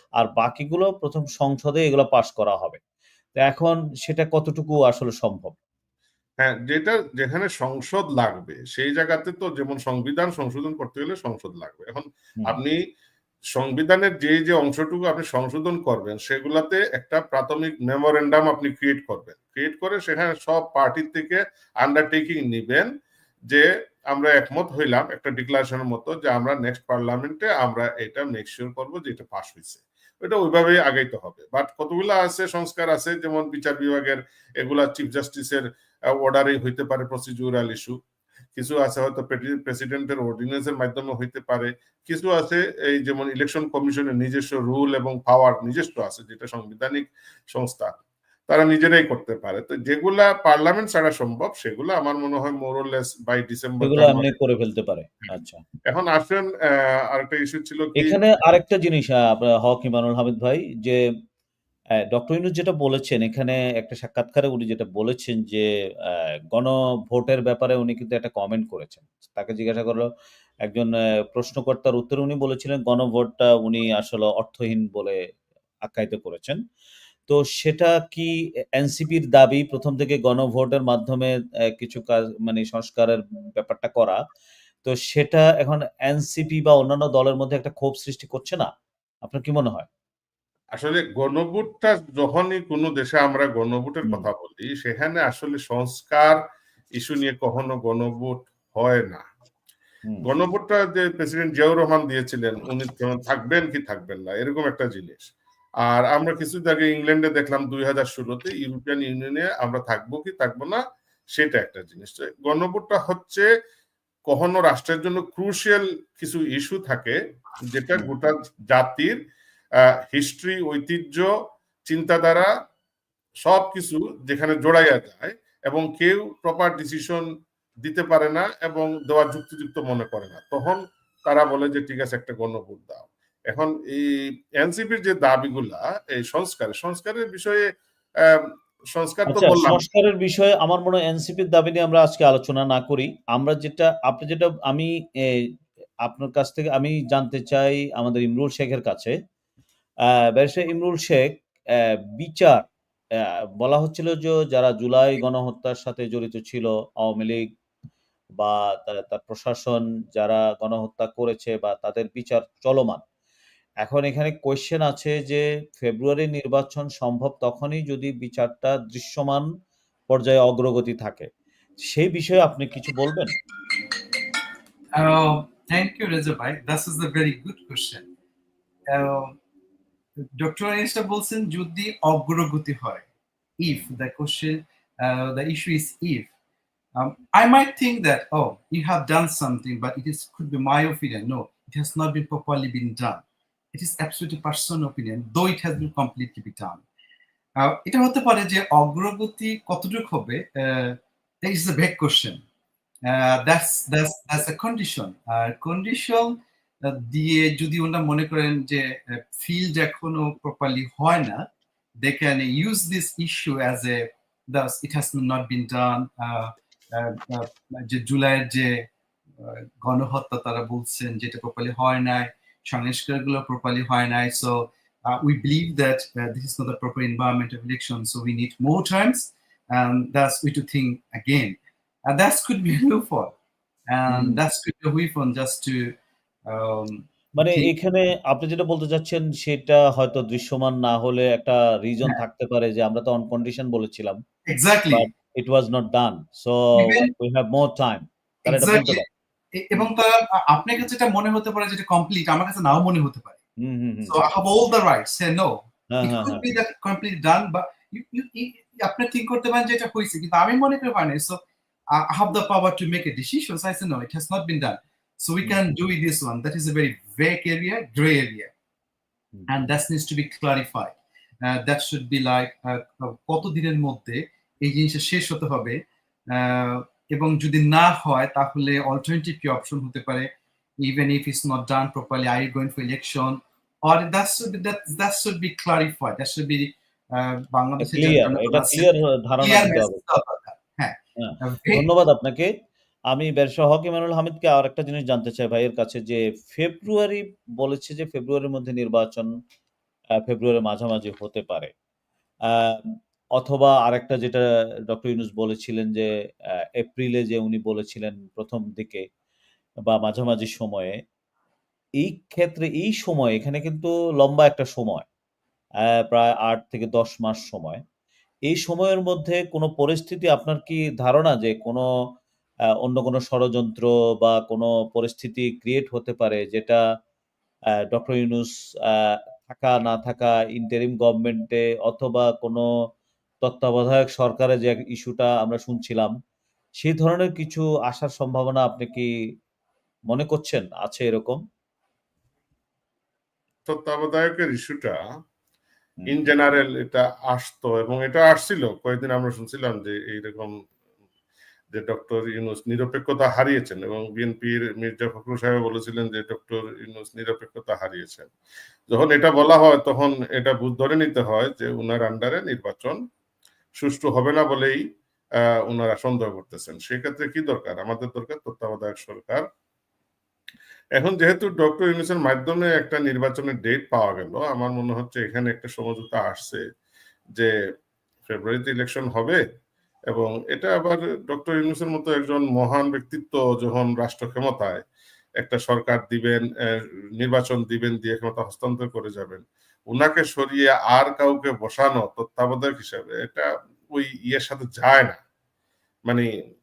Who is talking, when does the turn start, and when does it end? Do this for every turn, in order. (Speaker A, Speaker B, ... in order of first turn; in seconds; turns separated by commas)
Speaker A: 0.2-2.8, Speaker A: 3.4-5.6, Speaker B: 6.4-12.8, Speaker B: 13.5-22.9, Speaker B: 23.5-38.0, Speaker B: 38.5-54.3, Speaker A: 53.8-55.6, Speaker B: 55.9-58.2, Speaker A: 58.0-61.0, Speaker A: 62.1-65.7, Speaker A: 66.5-70.0, Speaker A: 70.7-75.2, Speaker A: 75.8-76.6, Speaker A: 77.3-84.2, Speaker A: 84.8-88.7, Speaker A: 89.2-89.9, Speaker B: 90.8-96.4, Speaker B: 97.0-99.2, Speaker B: 100.2-110.8, Speaker B: 111.3-113.5, Speaker B: 114.3-119.2, Speaker B: 120.1-121.3, Speaker B: 121.9-122.5, Speaker B: 123.4-127.2, Speaker B: 127.8-137.7, Speaker B: 138.2-139.8, Speaker A: 139.3-145.5, Speaker A: 146.1-149.1, Speaker A: 150.4-152.7, Speaker A: 153.6-157.5, Speaker A: 158.4-163.0, Speaker A: 163.8-169.5, Speaker A: 170.1-171.3, Speaker A: 171.9-173.4, Speaker C: 175.0-178.1, Speaker C: 178.9-179.3, Speaker C: 180.4-183.1, Speaker C: 183.6-186.3, Speaker C: 186.9-193.2, Speaker C: 193.7-196.8, Speaker C: 197.6-202.4, Speaker C: 203.1-211.5, Speaker C: 212.0-218.9, Speaker C: 219.4-233.3, Speaker C: 233.9-236.0, Speaker A: 234.1-234.4, Speaker C: 236.5-237.7, Speaker A: 237.4-244.2, Speaker C: 244.5-245.1, Speaker A: 244.9-249.1, Speaker C: 246.8-247.1, Speaker C: 248.5-253.4, Speaker A: 253.6-254.2, Speaker C: 254.1-261.4, Speaker A: 255.9-256.5, Speaker C: 261.9-268.5, Speaker A: 265.4-265.7, Speaker C: 269.5-275.8, Speaker C: 276.3-280.3, Speaker C: 280.8-288.9, Speaker A: 287.8-290.0, Speaker C: 289.4-291.9, Speaker A: 291.2-292.5, Speaker A: 293.1-299.3, Speaker A: 300.2-301.7, Speaker A: 302.5-306.1, Speaker A: 306.8-309.1, Speaker A: 309.9-311.0, Speaker A: 312.0-315.1, Speaker A: 315.8-317.8, Speaker A: 318.5-321.9, Speaker A: 322.8-326.8, Speaker A: 327.9-332.6, Speaker A: 333.4-336.1, Speaker A: 336.8-339.1, Speaker A: 340.1-341.4, Speaker B: 343.7-345.0, Speaker A: 346.0-346.3, Speaker B: 346.1-350.6, Speaker B: 351.7-358.3, Speaker B: 358.9-363.0, Speaker B: 363.8-364.8, Speaker B: 365.4-369.4, Speaker B: 371.0-376.6, Speaker B: 378.3-379.4, Speaker B: 380.1-384.8, Speaker B: 385.4-395.2